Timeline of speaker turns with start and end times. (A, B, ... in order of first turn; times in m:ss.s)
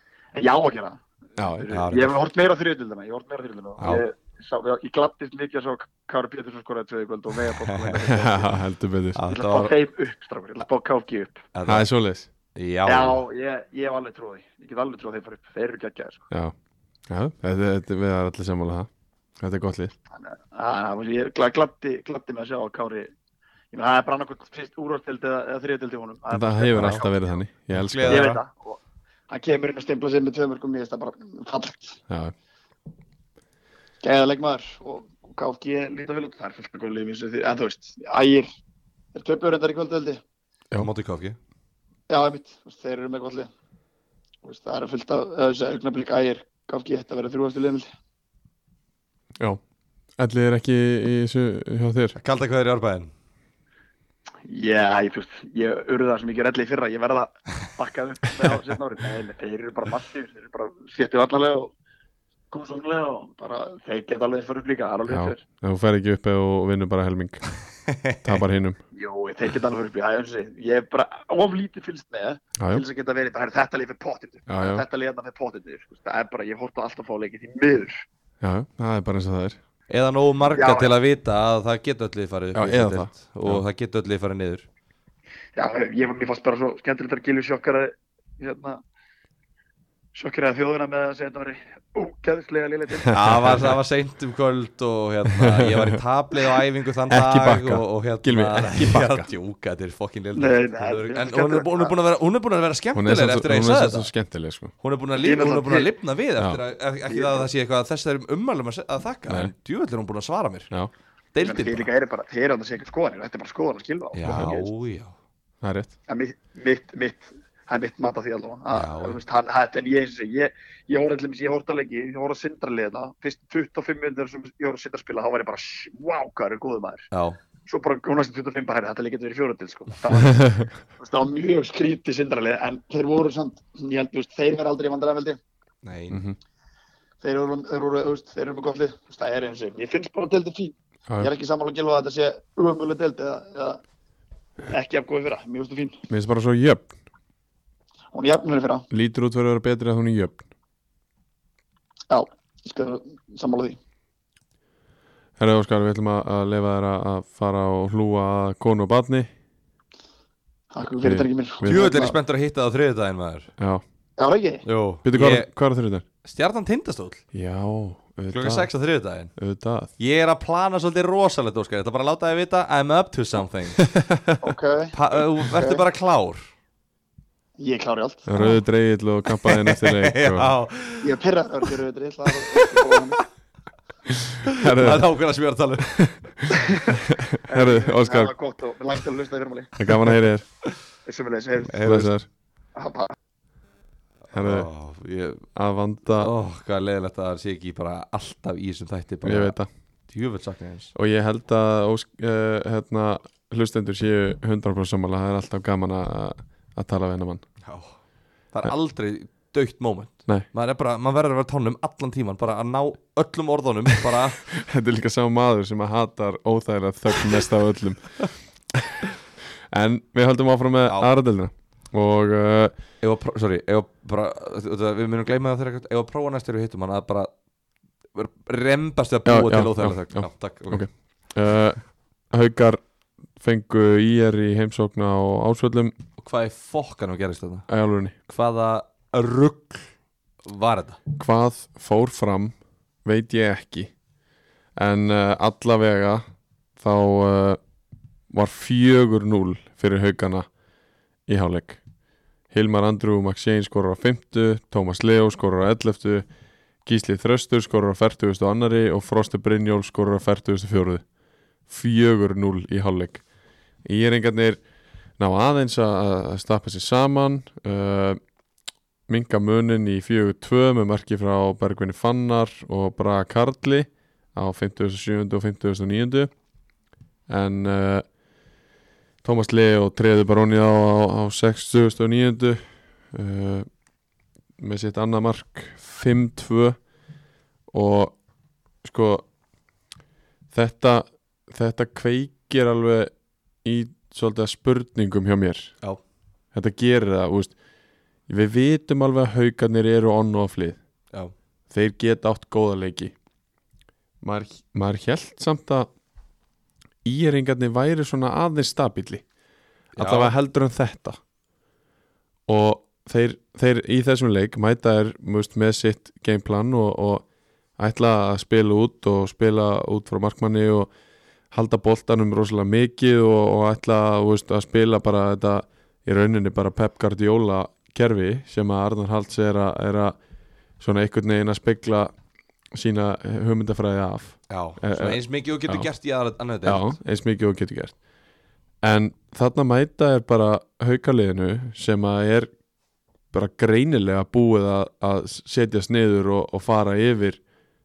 0:00.3-0:08.5 A
0:01.5-0:02.2 B
0:03.8-0:04.0 B
0:07.6-0:08.0 B
0:08.0-0:09.2 C
0:09.1-0:09.7 B
0:09.3-0:11.5 A
0:11.5-0:11.8 B
0:11.6-0:12.3 C
0:12.5-0:13.2 B
0:12.9-0:16.2 A
0:17.1-0:18.9 C
0:19.4-0:19.9 C
0:20.1-0:23.1 A
0:23.7-0:27.4 A
0:26.3-0:28.2 C
0:27.7-0:28.4 B
0:28.1-0:28.8 A
0:29.3-0:32.0 A
0:32.1-0:32.3 C
0:34.0-0:38.5 A
0:39.1-0:40.2 A
0:40.8-0:41.4 B
0:42.1-0:43.5 A
0:44.4-0:47.9 A
0:50.2-0:52.2 C
0:52.1-0:53.1 B
0:54.4-1:01.7 A
1:02.5-1:05.4 A
1:05.1-1:07.4 C
1:07.8-1:08.4 B
1:08.2-1:08.8 C
1:08.9-1:18.0 A
1:12.6-1:12.8 C
1:14.5-1:14.8 C
1:18.4-1:19.6 C
1:19.9-1:24.6 B
1:20.5-1:20.9 A
1:22.5-1:23.6 C
1:25.6-1:28.8 A
1:30.1-1:33.6 A
1:33.1-1:33.7 C
1:33.1-1:44.1 B
1:35.4-1:36.0 C
1:37.1-1:39.3 C
1:40.3-1:41.9 A
1:42.9-1:44.7 C
1:44.8-1:50.7 B
1:45.2-1:45.9 A
1:47.1-1:47.5 A
1:51.3-1:51.9 B
1:51.4-1:54.7 A
1:54.1-1:55.1 B
1:54.2-1:54.5 C
1:55.6-1:55.9 C
1:56.1-2:07.1 A
1:58.7-1:59.2 B
2:07.1-2:07.4 B
2:07.6-2:15.4 A
2:10.2-2:10.7 C
2:15.8-2:16.2 B
2:16.1-2:16.4 C
2:17.2-2:23.8 A
2:24.7-2:26.0 A
2:26.1-2:26.9 C
2:28.1-2:28.8 A
2:28.9-2:30.4 C
2:32.1-2:33.8 A
2:35.4-2:39.3 C
2:40.7-2:42.2 A
2:41.0-2:41.8 C
2:41.6-2:43.5 B
2:43.6-2:43.8 C
2:44.2-2:44.6 A
2:44.6-2:45.5 B
2:45.0-2:46.0 C
2:46.2-2:47.2 B
2:47.3-2:48.7 C
2:48.3-2:49.3 B
2:49.4-2:49.9 C
2:50.0-2:53.9 B
2:53.8-2:54.5 C
2:54.4-2:54.9 A
2:54.9-2:56.5 B
2:55.4-2:55.8 A
2:57.6-2:58.4 A
2:58.3-3:00.5 C
2:59.4-3:01.1 B
3:01.0-3:03.2 A
3:02.5-3:02.9 B
3:04.4-3:06.0 B
3:04.5-3:05.0 C
3:06.0-3:08.3 C
3:06.7-3:09.7 A
3:09.8-3:10.4 C
3:11.0-3:11.9 A
3:11.7-3:12.1 B
3:11.8-3:12.2 C
3:12.7-3:13.1 A
3:14.3-3:15.4 B
3:14.3-3:14.7 C
3:15.5-3:16.3 C
3:16.2-3:19.5 B
3:19.2-3:19.7 C
3:20.1-3:20.9 B
3:20.9-3:27.4 C
3:27.6-3:27.9 B
3:28.5-3:34.4 B
3:34.4-3:39.1 C
3:39.7-3:42.8 C
3:43.0-3:47.3 B
3:48.1-3:50.8 B
3:49.2-3:52.8 C
3:53.4-3:55.9 C
3:56.2-3:57.7 B
3:57.7-3:58.1 C
3:58.3-3:59.9 B
4:00.4-4:01.0 B
4:01.1-4:03.9 C
4:04.8-4:06.2 C
4:06.8-4:07.6 C
4:08.3-4:10.5 C
4:11.3-4:11.8 C
4:12.5-4:16.3 C
4:16.8-4:21.0 C
4:21.7-4:23.2 C
4:23.8-4:24.6 C
4:25.2-4:28.2 C
4:29.1-4:36.3 C
4:37.3-4:38.0 C
4:39.2-4:43.7 C
4:44.6-4:46.8 C
4:47.7-4:48.2 C
4:48.8-4:49.2 C
4:50.5-4:53.1 C
4:53.6-4:55.7 C
4:56.5-4:57.5 C
4:58.3-5:00.8 C
5:01.7-5:03.1 C
5:04.2-5:05.9 C
5:07.0-5:09.2 C
5:09.9-5:11.2 C
5:10.0-5:10.3 B
5:12.5-5:17.2 C
5:17.8-5:20.9 C
5:21.5-5:30.2 C
5:30.8-5:32.1 C
5:32.7-5:35.9 C
5:34.5-5:36.9 B
5:36.6-5:38.0 C
5:38.8-5:42.5 C
5:43.3-5:47.4 C